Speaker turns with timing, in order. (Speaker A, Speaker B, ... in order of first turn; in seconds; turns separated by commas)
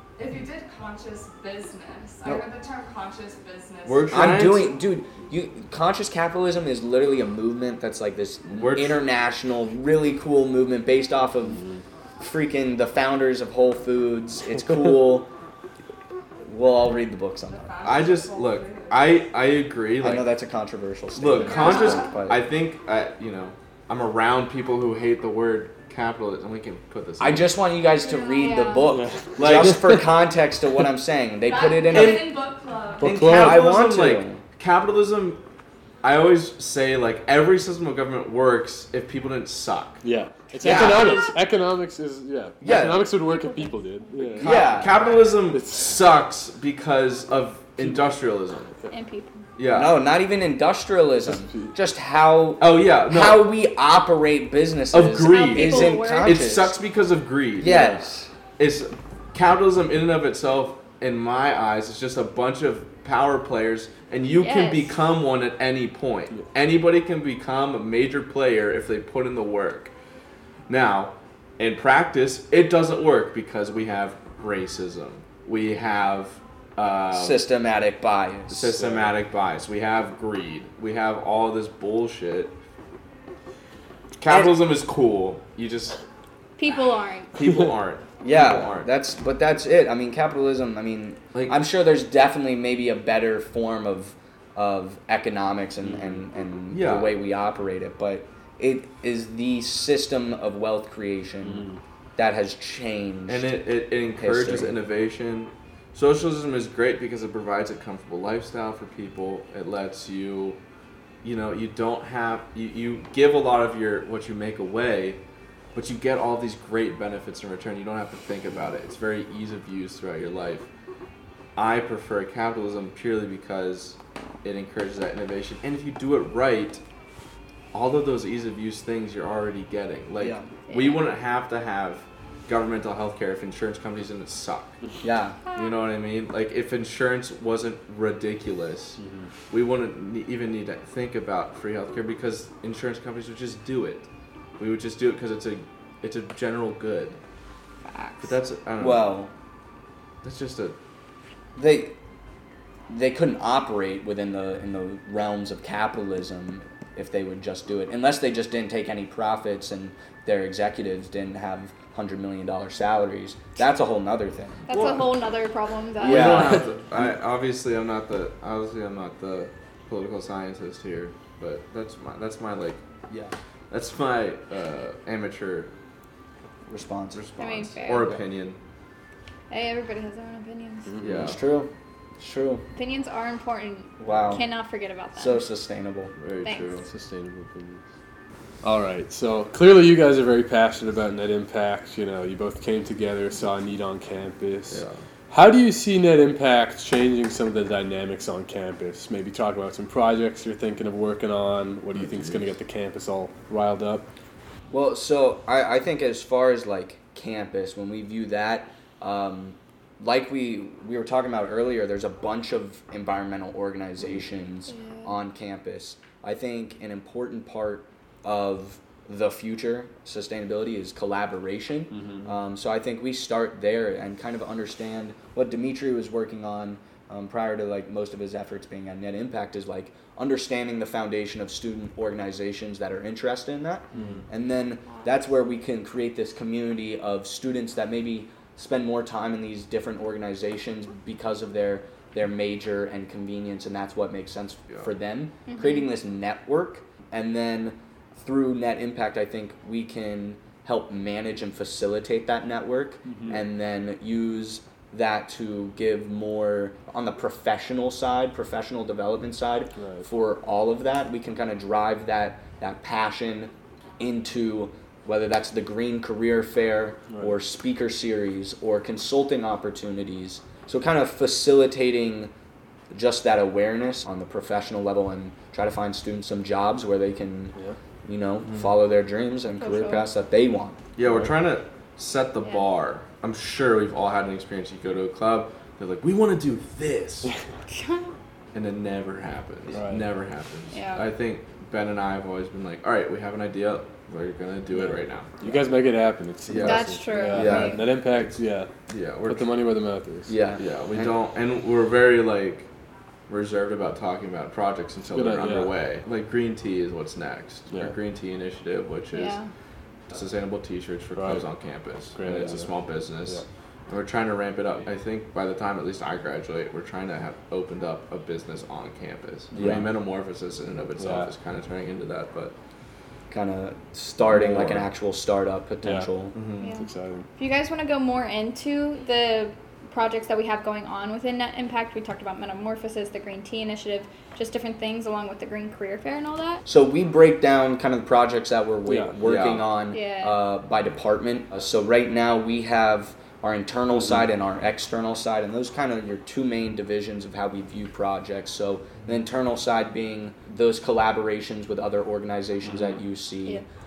Speaker A: 0.2-4.5, Speaker B: 3.8-4.8, Speaker C: 4.1-11.6, Speaker B: 8.5-9.0, Speaker C: 12.2-15.3, Speaker C: 16.4-17.7, Speaker A: 17.4-19.2, Speaker B: 17.8-20.3, Speaker C: 20.0-22.4, Speaker B: 21.1-27.5, Speaker A: 21.4-22.1, Speaker C: 27.2-32.3, Speaker D: 28.0-29.0, Speaker E: 28.9-30.0, Speaker B: 29.4-29.8, Speaker A: 31.4-33.0, Speaker B: 31.9-32.3, Speaker E: 33.0-33.7, Speaker C: 33.0-34.4, Speaker B: 33.0-35.4, Speaker B: 36.0-40.0, Speaker E: 40.0-44.7, Speaker C: 40.6-41.3, Speaker B: 40.7-40.9, Speaker C: 42.6-43.1, Speaker D: 43.3-44.5, Speaker A: 44.4-45.3, Speaker C: 44.4-45.0, Speaker B: 44.4-48.7, Speaker E: 45.5-46.0, Speaker D: 48.9-49.4, Speaker B: 49.6-50.0, Speaker C: 49.7-56.8, Speaker E: 51.2-51.7, Speaker B: 52.6-53.5, Speaker B: 54.9-58.0, Speaker D: 55.2-56.4, Speaker C: 57.6-58.3, Speaker B: 58.6-69.9, Speaker D: 64.4-64.9, Speaker B: 70.7-77.5, Speaker C: 77.1-79.1, Speaker B: 78.5-82.5, Speaker B: 84.2-86.0, Speaker C: 84.2-84.5, Speaker D: 86.6-87.3, Speaker B: 87.3-88.9, Speaker C: 88.2-103.5, Speaker B: 91.3-91.6, Speaker E: 95.8-96.2, Speaker B: 96.7-97.2, Speaker E: 101.4-101.8, Speaker B: 103.3-110.6, Speaker C: 104.2-104.8, Speaker B: 111.2-115.2, Speaker B: 115.7-120.7, Speaker B: 121.5-126.8, Speaker B: 127.7-134.8, Speaker C: 130.2-130.5, Speaker D: 130.7-131.0, Speaker C: 135.0-135.4, Speaker B: 135.5-144.1, Speaker E: 139.0-139.3, Speaker B: 144.6-147.2, Speaker D: 147.9-148.3, Speaker B: 148.2-149.1, Speaker C: 148.8-149.3, Speaker B: 150.2-150.8, Speaker C: 151.6-151.9, Speaker C: 152.9-165.0, Speaker D: 164.7-166.6, Speaker B: 164.7-165.0, Speaker B: 166.0-172.8, Speaker C: 166.0-166.7, Speaker C: 173.1-173.3, Speaker B: 173.7-175.7, Speaker C: 176.7-177.2, Speaker B: 177.1-178.6, Speaker D: 177.4-178.1, Speaker C: 177.9-178.2, Speaker D: 179.5-180.9, Speaker E: 180.9-181.3, Speaker B: 181.0-181.4, Speaker C: 181.1-182.6, Speaker D: 182.7-185.5, Speaker C: 184.0-184.4, Speaker C: 185.2-186.1, Speaker B: 186.2-186.9, Speaker D: 186.4-186.7, Speaker E: 186.8-187.8, Speaker E: 188.6-204.1, Speaker B: 194.7-195.0, Speaker B: 201.9-202.5, Speaker C: 204.7-272.3, Speaker D: 214.7-215.1, Speaker E: 221.9-222.3, Speaker E: 233.9-234.2, Speaker B: 233.9-234.2, Speaker D: 245.5-245.9, Speaker E: 253.1-253.4, Speaker E: 259.8-260.1, Speaker C: 272.9-280.8, Speaker B: 278.4-278.7, Speaker D: 279.6-280.0, Speaker B: 280.9-287.3, Speaker E: 281.0-281.3, Speaker D: 287.7-288.1, Speaker B: 288.5-295.4, Speaker E: 289.7-290.1, Speaker D: 290.7-291.1, Speaker E: 294.7-298.7, Speaker B: 296.5-297.6, Speaker D: 296.6-297.8, Speaker C: 297.3-297.8, Speaker B: 298.9-299.5, Speaker E: 299.3-300.3, Speaker C: 300.3-301.1, Speaker B: 300.6-302.7, Speaker B: 303.3-309.4, Speaker E: 305.1-305.7, Speaker D: 309.1-309.5, Speaker B: 310.1-322.5, Speaker E: 311.1-311.4, Speaker E: 312.1-312.7, Speaker C: 319.5-319.9, Speaker E: 321.0-321.3, Speaker C: 323.3-326.3, Speaker B: 324.4-324.7, Speaker E: 324.4-324.8, Speaker E: 325.8-326.1, Speaker B: 326.3-326.7, Speaker D: 326.6-336.6, Speaker E: 326.8-327.3, Speaker C: 336.6-353.6, Speaker E: 338.9-339.6, Speaker D: 339.9-340.4, Speaker E: 343.9-344.2